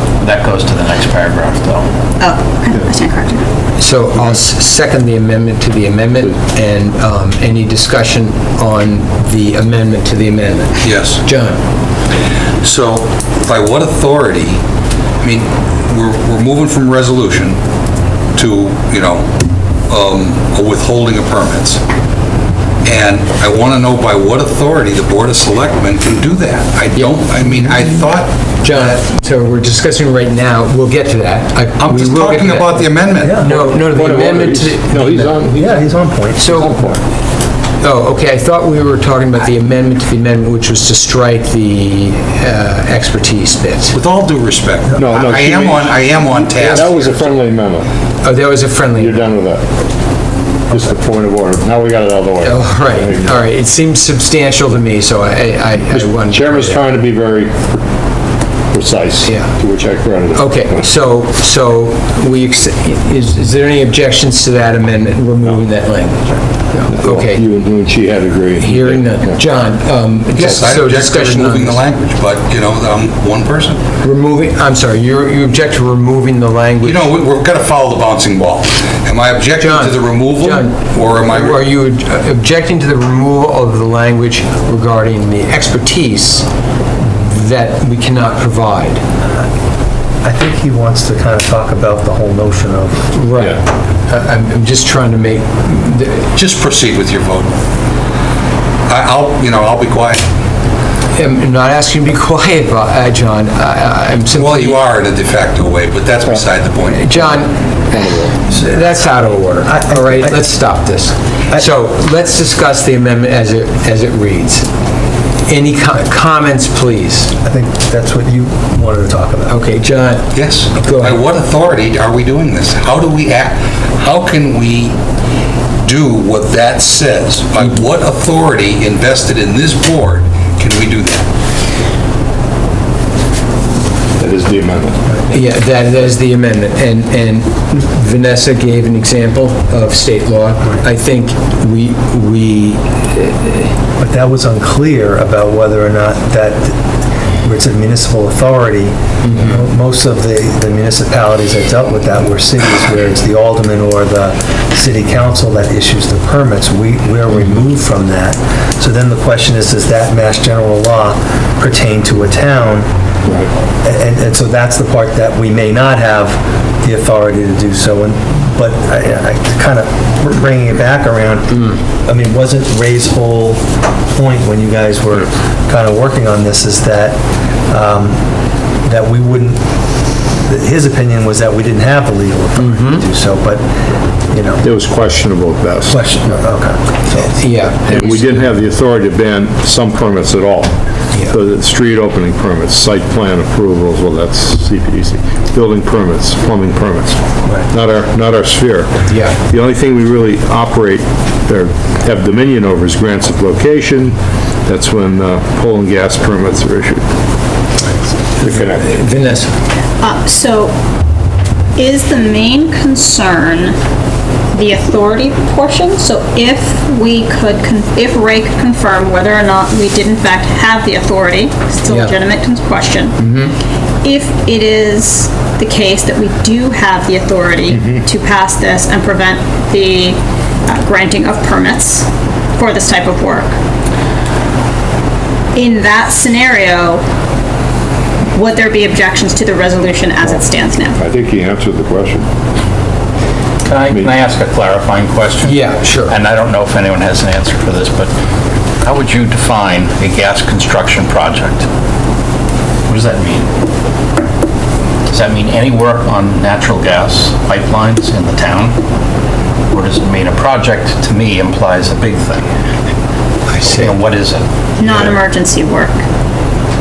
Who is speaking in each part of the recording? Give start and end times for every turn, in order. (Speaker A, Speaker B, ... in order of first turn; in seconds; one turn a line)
Speaker A: 0.2-1.9
Speaker B: 2.2-3.5
Speaker C: 3.8-11.6
Speaker D: 10.8-11.2
Speaker D: 12.6-14.6
Speaker D: 15.2-17.6
Speaker D: 18.4-19.2
Speaker D: 19.9-21.8
Speaker D: 22.8-28.9
Speaker C: 27.0-27.8
Speaker C: 28.6-35.5
Speaker D: 31.8-33.4
Speaker E: 33.2-33.5
Speaker F: 33.5-35.8
Speaker E: 35.5-37.0
Speaker C: 36.4-36.8
Speaker F: 36.6-37.0
Speaker C: 37.8-44.0
Speaker D: 43.9-47.3
Speaker F: 45.0-47.9
Speaker C: 48.2-49.3
Speaker F: 49.0-49.6
Speaker F: 50.7-53.3
Speaker C: 52.4-56.8
Speaker F: 55.9-57.8
Speaker F: 58.7-60.9
Speaker C: 59.2-59.5
Speaker C: 60.3-67.5
Speaker F: 66.9-69.4
Speaker C: 68.6-71.8
Speaker D: 70.4-73.8
Speaker C: 74.0-77.1
Speaker D: 76.8-81.7
Speaker C: 79.6-86.5
Speaker C: 87.0-89.0
Speaker E: 90.2-93.2
Speaker C: 93.1-96.3
Speaker D: 96.3-97.5
Speaker D: 98.9-100.2
Speaker C: 101.1-104.8
Speaker D: 104.4-107.1
Speaker C: 106.9-107.6
Speaker F: 107.9-108.4
Speaker C: 108.4-114.7
Speaker E: 109.7-110.5
Speaker C: 115.5-117.3
Speaker E: 117.4-119.6
Speaker C: 119.5-121.2
Speaker D: 120.3-125.0
Speaker D: 125.8-131.3
Speaker F: 134.2-135.0
Speaker C: 135.3-143.7
Speaker E: 144.0-146.8
Speaker E: 147.4-162.9
Speaker C: 149.2-149.5
Speaker F: 163.2-163.5
Speaker E: 163.8-173.6
Speaker E: 174.2-177.2
Speaker E: 177.7-178.2
Speaker E: 178.8-179.6
Speaker E: 180.4-183.6
Speaker C: 182.6-183.0
Speaker E: 184.3-184.7
Speaker F: 184.6-186.0
Speaker E: 185.9-187.4
Speaker C: 187.3-188.4
Speaker F: 187.9-190.7
Speaker F: 191.3-198.9
Speaker C: 199.1-199.4
Speaker F: 199.5-207.0
Speaker C: 208.4-209.5
Speaker F: 208.4-208.9
Speaker B: 210.0-210.8
Speaker B: 211.8-213.8
Speaker B: 214.5-223.2
Speaker C: 221.9-222.2
Speaker B: 224.0-233.6
Speaker B: 235.5-237.0
Speaker B: 238.3-241.0
Speaker F: 241.0-242.3
Speaker D: 243.7-245.6
Speaker C: 245.4-246.2
Speaker A: 246.1-248.1
Speaker D: 247.6-248.1
Speaker D: 248.8-251.7
Speaker A: 248.8-251.5
Speaker D: 252.9-253.5
Speaker A: 252.9-253.3
Speaker D: 255.1-258.8
Speaker A: 255.3-256.6
Speaker A: 257.6-258.7
Speaker D: 259.7-262.4
Speaker A: 259.7-260.7
Speaker A: 261.2-262.3
Speaker C: 263.5-263.9
Speaker D: 263.7-264.5
Speaker B: 264.8-266.0